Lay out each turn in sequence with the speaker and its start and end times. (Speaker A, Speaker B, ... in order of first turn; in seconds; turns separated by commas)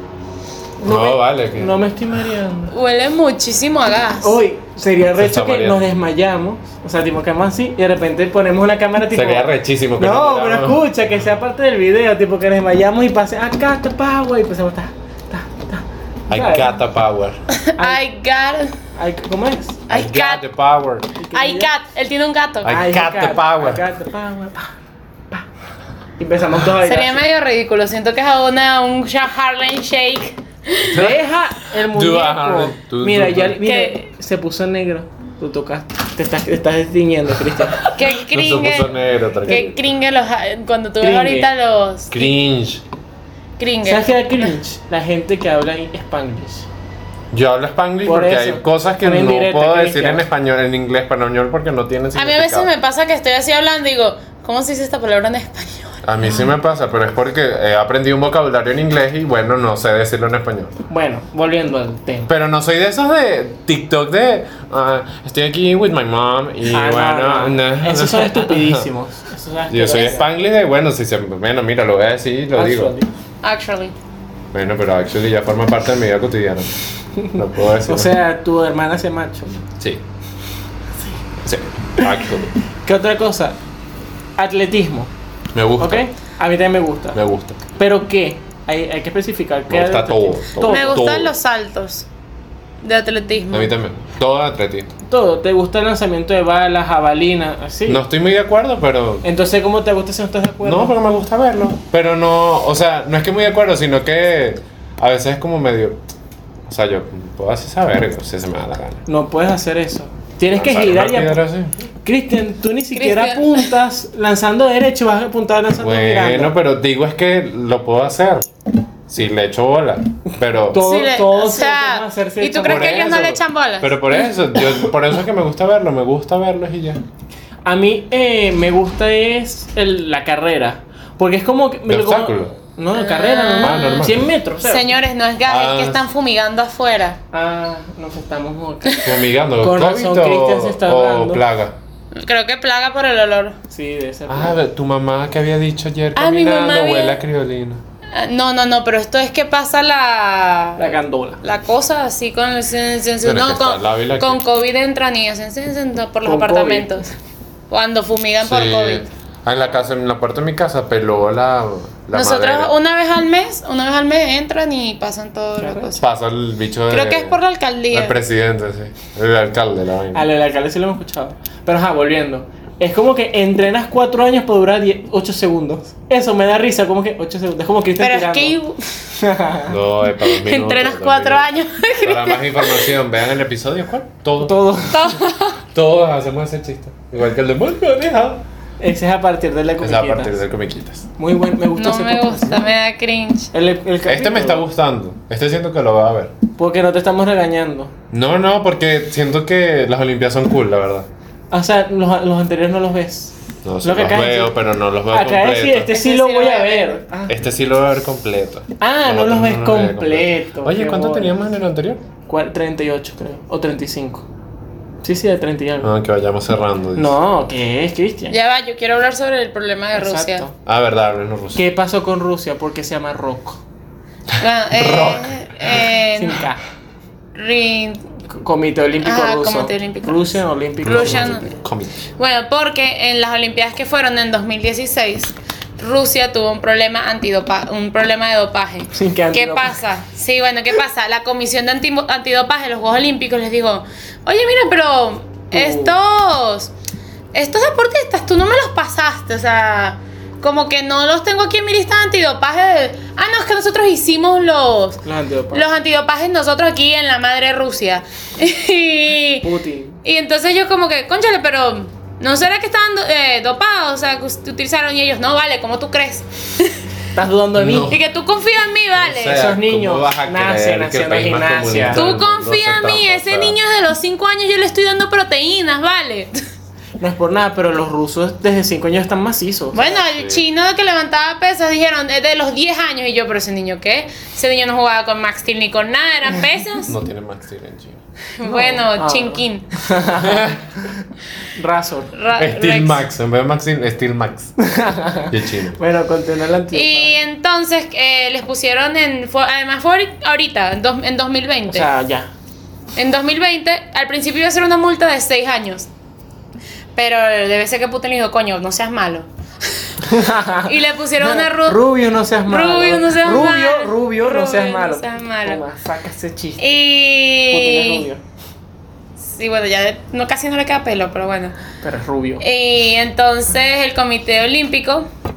Speaker A: 0.8-2.7, Speaker B: 0.8-1.8, Speaker C: 2.7-4.4, Speaker A: 4.2-16.7, Speaker B: 5.2-5.8, Speaker B: 9.1-10.8, Speaker B: 16.3-17.4, Speaker C: 17.5-18.8, Speaker A: 17.8-18.0, Speaker A: 18.9-19.8, Speaker C: 19.9-20.4, Speaker B: 19.9-21.1, Speaker A: 21.2-21.7, Speaker C: 21.3-22.7, Speaker B: 22.6-23.8, Speaker A: 22.7-24.7, Speaker A: 26.2-27.2, Speaker C: 26.8-31.1, Speaker B: 30.9-31.2, Speaker A: 30.9-37.9, Speaker B: 31.9-33.6, Speaker C: 33.6-34.0, Speaker C: 37.8-42.3, Speaker B: 38.1-39.8, Speaker A: 41.0-41.5, Speaker B: 42.1-42.8, Speaker C: 43.6-44.5, Speaker A: 43.9-46.7, Speaker B: 47.3-52.7, Speaker A: 48.0-50.2, Speaker C: 52.1-56.5, Speaker B: 56.0-60.8, Speaker A: 60.9-62.3, Speaker B: 62.3-68.9, Speaker A: 66.7-70.3, Speaker B: 69.7-72.9, Speaker A: 72.5-73.1, Speaker C: 73.4-73.9, Speaker B: 74.5-76.8, Speaker A: 77.2-79.7, Speaker B: 77.3-78.1, Speaker B: 81.4-82.5, Speaker A: 82.8-83.6, Speaker A: 84.4-85.1, Speaker B: 85.5-86.0, Speaker A: 85.8-87.2, Speaker B: 87.1-87.6, Speaker A: 87.8-91.1, Speaker B: 89.7-91.3, Speaker C: 90.6-92.1, Speaker C: 92.8-93.7, Speaker B: 93.5-94.9, Speaker A: 95.1-98.0, Speaker B: 97.9-99.3, Speaker A: 99.2-101.0, Speaker B: 100.6-106.0, Speaker B: 106.7-109.0, Speaker A: 109.1-111.4, Speaker B: 110.5-111.8, Speaker A: 112.0-116.5, Speaker C: 112.9-113.7, Speaker B: 115.8-118.5, Speaker B: 119.1-120.8, Speaker A: 120.6-123.4, Speaker C: 120.8-124.1, Speaker B: 122.6-127.0, Speaker A: 124.6-124.8, Speaker A: 127.7-134.9, Speaker B: 131.9-132.5, Speaker C: 132.9-137.2, Speaker B: 133.6-134.2, Speaker B: 135.5-136.0, Speaker A: 137.3-141.4, Speaker B: 139.0-141.8, Speaker C: 142.1-143.6, Speaker A: 143.7-144.6, Speaker B: 144.3-147.8, Speaker C: 146.2-147.2, Speaker C: 148.1-157.1, Speaker A: 150.8-151.4, Speaker B: 153.2-154.4, Speaker A: 156.2-157.1, Speaker C: 157.7-159.1, Speaker B: 158.4-162.7, Speaker C: 162.1-166.0, Speaker A: 165.6-165.9, Speaker B: 166.0-167.4, Speaker C: 166.9-168.2, Speaker B: 167.9-170.3, Speaker A: 170.1-179.8, Speaker C: 178.0-178.8, Speaker B: 179.7-181.5, Speaker C: 180.2-183.0, Speaker B: 182.0-184.9, Speaker A: 184.4-185.2, Speaker C: 184.9-185.6, Speaker B: 185.7-188.4, Speaker A: 188.8-190.4, Speaker B: 189.8-191.1, Speaker A: 191.2-192.7, Speaker C: 191.8-193.5, Speaker A: 193.5-194.7, Speaker B: 194.1-196.3, Speaker A: 196.6-197.9, Speaker B: 198.1-201.1, Speaker A: 201.5-204.6, Speaker B: 203.6-205.9, Speaker A: 205.1-207.3, Speaker C: 205.9-207.0, Speaker B: 207.3-212.1, Speaker A: 208.8-211.3, Speaker A: 212.3-214.3, Speaker A: 215.0-215.9, Speaker B: 215.8-217.2, Speaker A: 217.0-218.4, Speaker C: 218.3-220.5, Speaker A: 219.9-220.5, Speaker B: 220.7-221.6, Speaker A: 221.6-223.6, Speaker C: 224.4-226.4, Speaker B: 224.8-225.7, Speaker A: 226.2-226.6, Speaker C: 227.3-228.0, Speaker A: 228.3-231.4, Speaker C: 229.0-231.5, Speaker B: 230.8-232.0, Speaker C: 232.2-246.7, Speaker A: 238.9-239.8, Speaker A: 245.5-246.0, Speaker C: 247.3-259.5, Speaker A: 255.0-255.7, Speaker A: 259.4-260.0, Speaker C: 260.0-266.8, Speaker A: 267.1-267.9, Speaker B: 267.6-268.0, Speaker C: 267.9-269.5, Speaker B: 268.9-273.6, Speaker A: 269.3-272.0, Speaker C: 271.9-276.4, Speaker A: 277.0-280.0, Speaker C: 279.7-286.9, Speaker B: 280.1-280.4, Speaker B: 286.8-288.0, Speaker C: 288.4-289.9, Speaker A: 288.4-292.1, Speaker B: 290.2-290.6, Speaker C: 292.1-293.0, Speaker B: 292.4-294.6, Speaker A: 294.6-297.2, Speaker B: 295.3-295.8, Speaker C: 296.7-301.9, Speaker A: 301.7-302.3, Speaker C: 303.0-305.9, Speaker C: 307.0-309.3, Speaker A: 310.0-316.8, Speaker C: 310.6-311.8, Speaker C: 312.5-315.6, Speaker C: 316.6-318.1, Speaker A: 317.5-318.2, Speaker C: 319.2-321.6, Speaker A: 321.8-322.4, Speaker C: 322.4-325.1